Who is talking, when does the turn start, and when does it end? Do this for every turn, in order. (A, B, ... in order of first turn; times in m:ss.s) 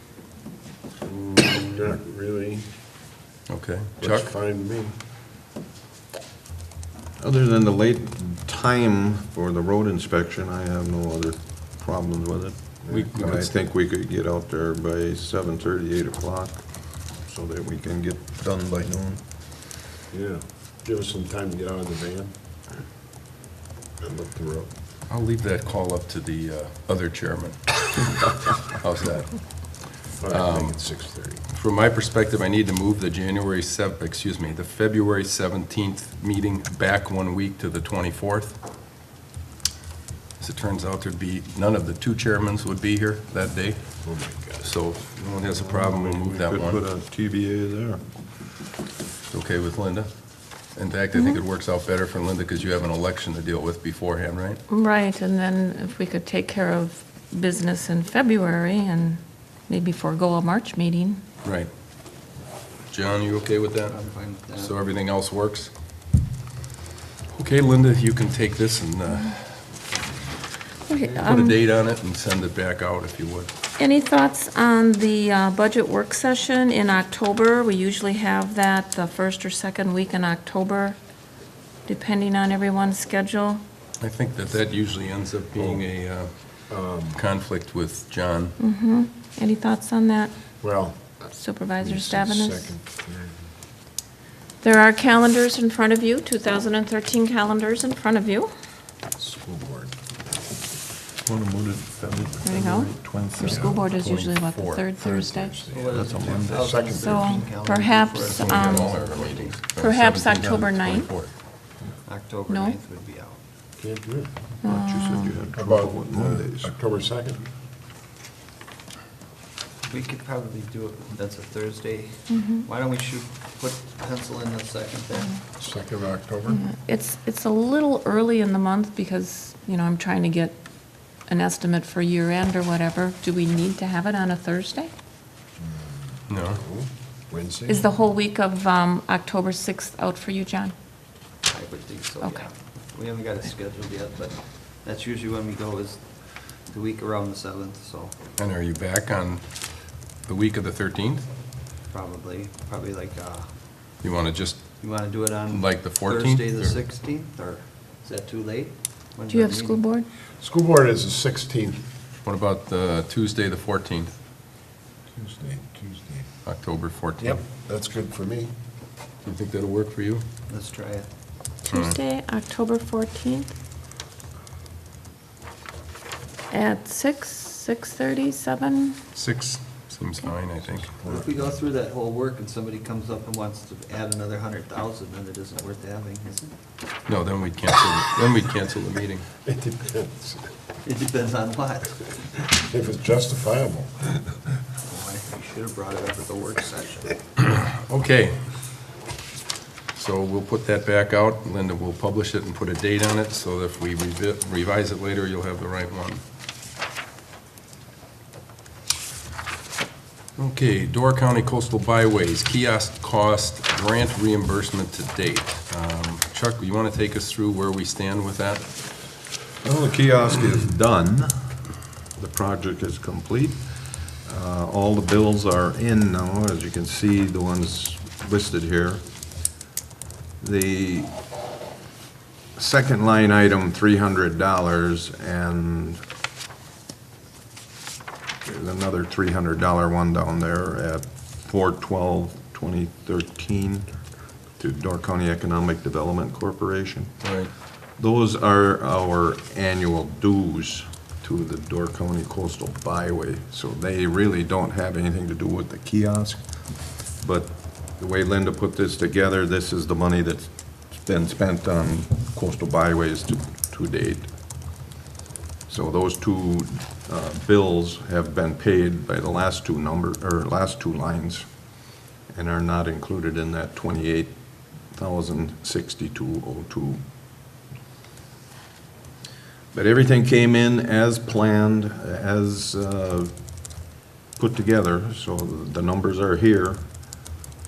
0:01.0-0:02.7 A
0:03.5-0:04.3 B
0:04.0-0:05.0 A
0:07.2-0:16.6 C
0:12.8-0:13.3 A
0:12.9-0:13.5 B
0:17.1-0:19.2 C
0:20.1-0:22.3 A
0:24.0-0:24.7 A
0:25.1-0:29.5 B
0:30.1-0:31.4 A
0:30.3-0:30.8 B
0:31.5-0:38.6 B
0:40.4-0:43.8 B
0:44.0-0:44.8 A
0:44.6-0:46.8 B
0:45.7-0:48.0 C
0:49.3-0:50.1 B
0:50.7-0:54.6 B
0:51.2-0:51.4 D
0:54.7-1:01.2 D
1:01.4-1:01.7 B
1:02.9-1:04.0 B
1:03.9-1:04.8 E
1:04.6-1:05.7 B
1:07.3-1:09.5 B
1:10.9-1:11.6 D
1:11.1-1:13.5 B
1:13.8-1:21.0 D
1:21.9-1:23.6 D
1:24.0-1:26.3 B
1:25.6-1:25.8 A
1:26.7-1:27.2 A
1:27.1-1:28.6 B
1:28.6-1:30.3 D
1:30.6-1:33.4 A
1:31.3-1:32.7 D
1:34.6-1:38.5 D
1:39.2-1:39.9 A
1:41.2-1:43.8 C
1:42.4-1:45.7 D
1:43.4-1:43.8 A
1:43.4-1:44.9 B
1:45.0-1:47.5 A
1:45.7-1:49.6 E
1:45.9-1:46.9 C
1:46.9-1:48.9 D
1:48.2-1:51.3 B
1:49.8-1:51.1 D
1:52.0-1:53.4 E
1:52.5-1:52.8 D
1:53.8-1:54.3 A
1:54.6-1:55.4 D
1:54.6-1:56.7 C
1:55.5-1:57.4 A
1:59.8-2:05.4 E
2:02.3-2:02.7 D
2:05.6-2:06.6 A
2:06.5-2:10.6 D
2:11.3-2:14.9 D
2:15.6-2:17.9 A
2:16.3-2:16.6 B
2:17.7-2:20.7 D
2:21.5-2:28.2 E
2:28.4-2:29.4 B
2:30.2-2:31.2 B
2:31.9-2:33.5 E
2:34.0-2:34.6 B
2:34.8-2:39.8 E
2:35.5-2:36.8 B
2:39.3-2:40.1 D
2:40.4-2:41.8 A
2:42.2-2:44.1 B
2:45.1-2:46.2 A
2:46.4-2:47.4 B
2:47.2-2:48.5 A
2:49.2-2:50.2 B
2:50.5-2:51.1 E
2:51.7-2:53.5 D
2:51.7-2:52.0 B
2:56.5-2:59.0 D
2:59.1-3:00.9 B
3:01.0-3:01.5 A
3:01.0-3:06.5 E
3:07.1-3:09.3 B
3:09.4-3:10.5 A
3:10.8-3:12.1 E
3:12.2-3:14.4 A
3:14.9-3:17.2 E
3:17.4-3:18.4 B
3:19.9-3:26.2 B
3:30.4-3:38.7 B
3:39.6-3:41.5 C
3:42.2-3:49.0 C
3:50.4-3:51.2 C
3:52.6-3:56.0 C
3:58.4-4:03.9 C
4:04.6-4:07.2 C
4:07.2-4:07.5 B
4:08.0-4:24.3 C
4:25.7-4:31.5 C
4:32.3-4:34.4 C
4:34.9-4:37.0 C
4:39.7-4:43.3 C
4:44.4-4:46.8 C